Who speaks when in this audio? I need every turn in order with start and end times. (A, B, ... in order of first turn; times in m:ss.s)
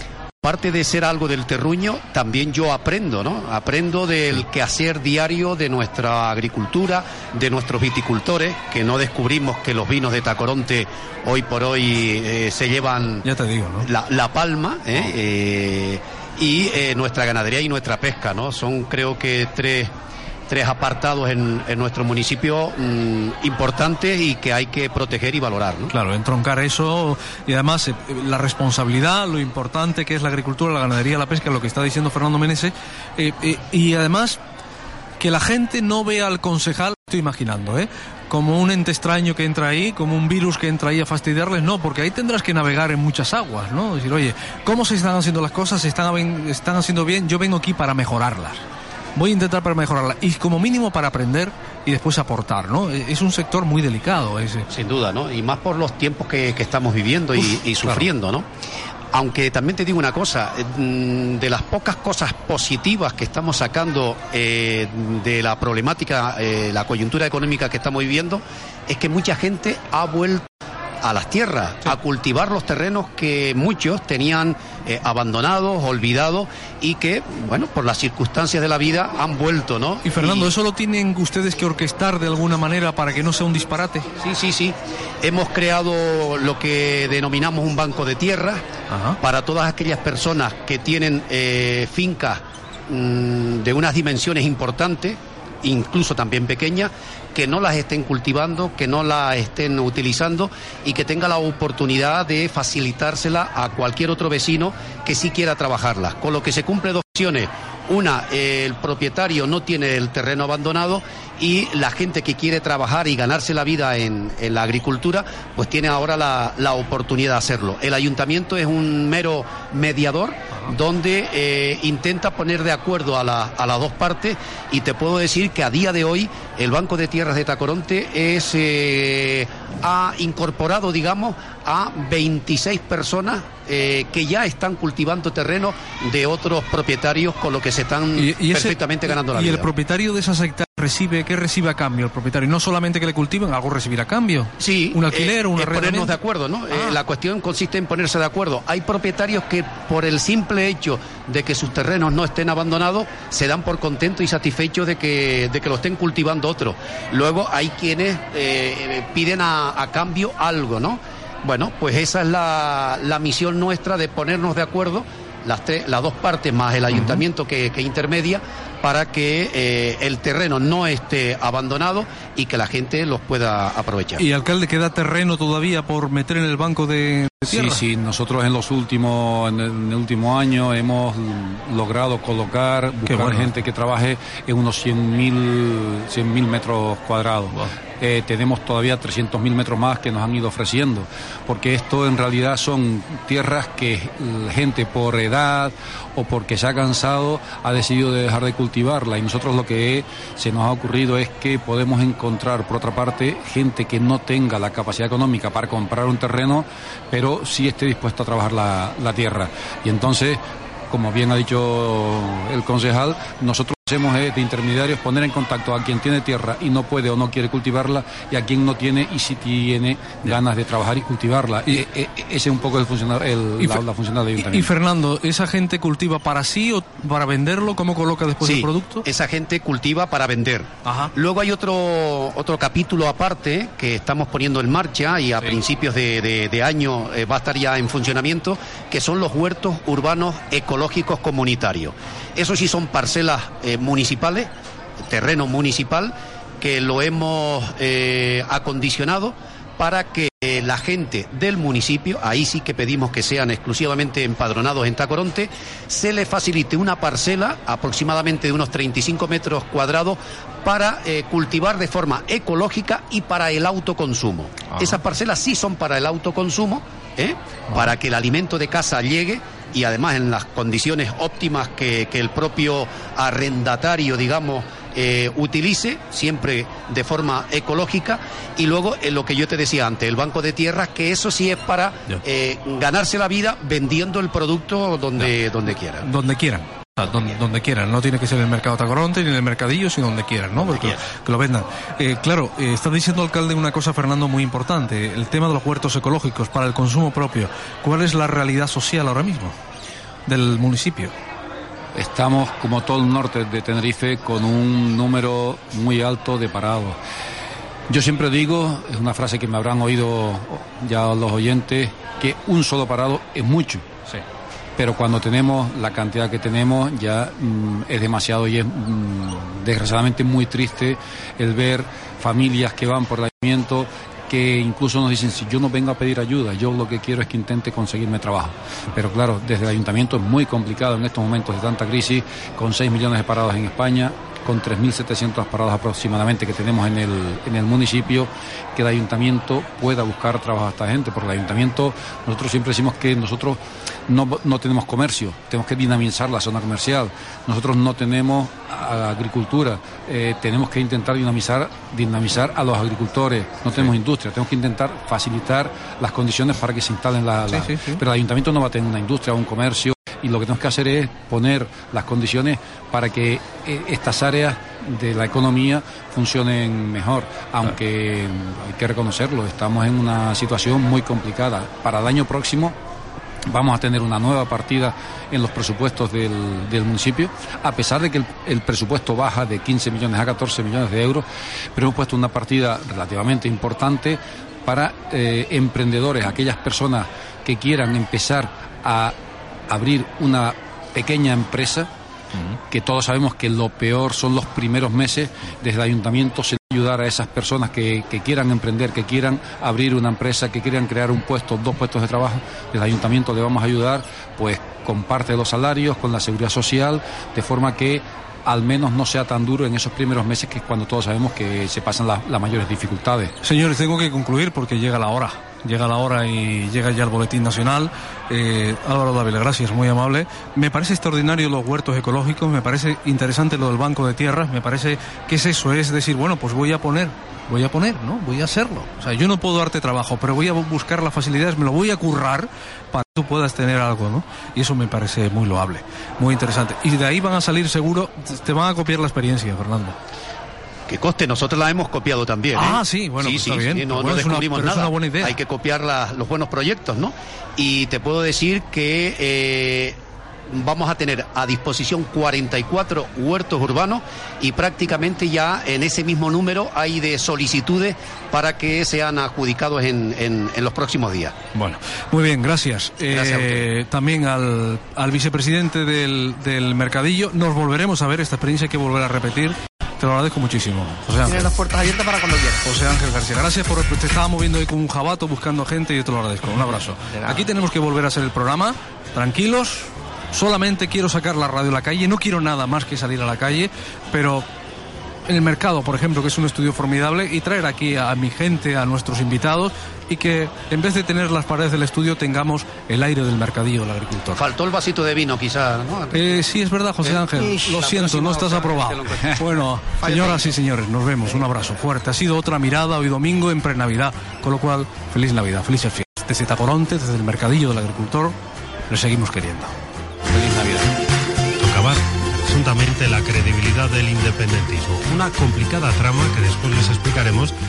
0:00.4-0:13.2 A
0:13.2-0:13.9 B
0:13.8-0:19.9 A
0:20.5-0:25.9 A
0:25.9-0:34.4 B
0:35.2-0:48.6 B
0:49.2-0:54.7 B
0:54.7-0:58.5 A
0:57.4-0:58.1 B
0:59.1-1:10.4 A
1:11.0-1:20.5 A
1:20.0-1:24.1 B
1:24.2-1:28.6 A
1:28.9-1:29.2 B
1:29.2-2:19.7 A
2:18.2-2:26.1 B
2:24.6-2:54.2 A
2:26.7-2:27.0 B
2:46.9-2:47.2 B
2:54.2-2:57.8 B
2:57.5-3:44.7 C
3:03.0-3:03.5 B
3:44.4-3:49.0 B
3:48.4-4:04.5 A
3:50.8-3:51.1 B
4:05.1-4:46.1 A
4:46.0-4:59.6 B
4:50.7-4:51.0 A
5:00.3-5:01.1 B
5:02.0-5:07.0 C
5:07.9-5:14.0 C
5:14.8-6:12.8 C
5:57.5-5:58.0 B
6:13.5-6:29.2 C
6:29.7-6:31.9 C
6:32.7-6:53.3 C
6:53.4-7:20.0 B
7:20.9-7:30.0 A
7:22.6-7:25.4 B
7:30.5-7:41.3 A
7:41.5-7:51.5 B
7:43.1-7:43.6 A
7:51.3-7:52.6 D
7:52.6-8:04.5 B
7:57.1-7:57.5 D
8:05.3-8:14.4 B
8:14.4-8:16.5 A
8:16.1-8:28.4 B
8:17.0-8:19.5 A
8:20.0-8:20.5 D
8:28.9-8:29.8 B
8:30.3-8:30.9 B
8:31.6-8:37.5 E